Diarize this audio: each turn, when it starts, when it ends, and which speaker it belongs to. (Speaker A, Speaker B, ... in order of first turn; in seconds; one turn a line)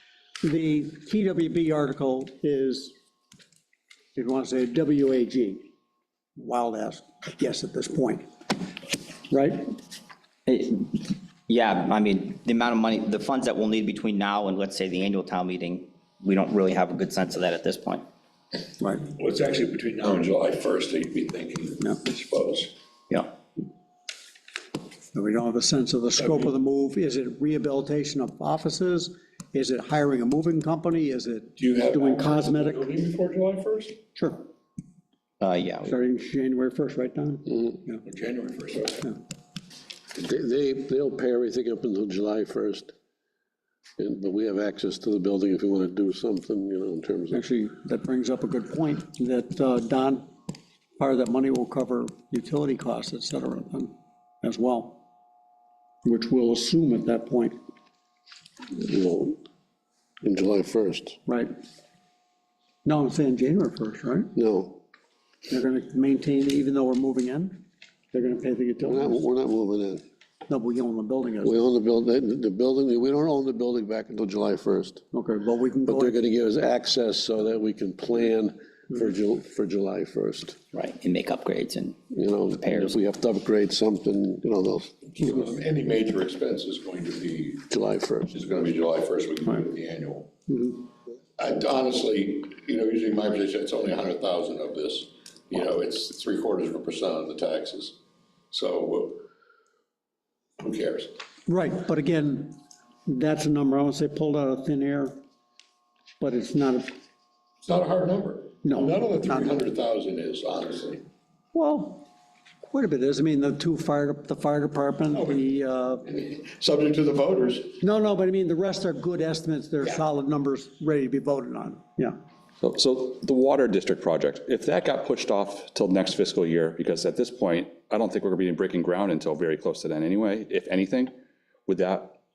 Speaker A: 0.4-2.9
Speaker A: 4.2-5.6
Speaker A: 6.3-8.2
Speaker A: 9.3-9.7
Speaker B: 10.4-18.1
Speaker A: 18.8-19.1
Speaker C: 19.1-22.7
Speaker A: 25.1-32.9
Speaker C: 31.6-34.0
Speaker A: 34.1-34.5
Speaker B: 35.4-35.9
Speaker A: 35.8-38.0
Speaker C: 38.0-39.1
Speaker D: 40.1-42.9
Speaker D: 44.0-47.4
Speaker A: 47.3-50.3
Speaker A: 51.0-55.0
Speaker A: 56.0-57.6
Speaker D: 58.7-59.4
Speaker D: 60.2-61.2
Speaker A: 61.2-61.5
Speaker A: 62.8-64.3
Speaker D: 64.3-64.8
Speaker A: 65.5-69.2
Speaker D: 68.9-70.0
Speaker A: 70.5-71.6
Speaker D: 71.4-75.0
Speaker A: 75.1-76.2
Speaker D: 75.8-80.6
Speaker B: 80.7-82.0
Speaker D: 82.1-85.1
Speaker B: 82.5-83.0
Speaker C: 85.1-87.7
Speaker D: 87.7-88.3
Speaker C: 88.3-90.5
Speaker A: 90.5-90.8
Speaker C: 91.4-98.0
Speaker C: 98.5-99.2
Speaker C: 100.6-101.1
Speaker A: 101.5-105.2
Speaker A: 106.2-106.9
Speaker C: 107.6-111.0
Speaker A: 108.6-109.6
Speaker A: 111.5-112.0
Speaker A: 112.7-116.0
Speaker C: 115.1-115.4
Speaker C: 116.0-117.8
Speaker A: 117.8-122.2
Speaker E: 122.6-131.1
Speaker E: 131.7-132.1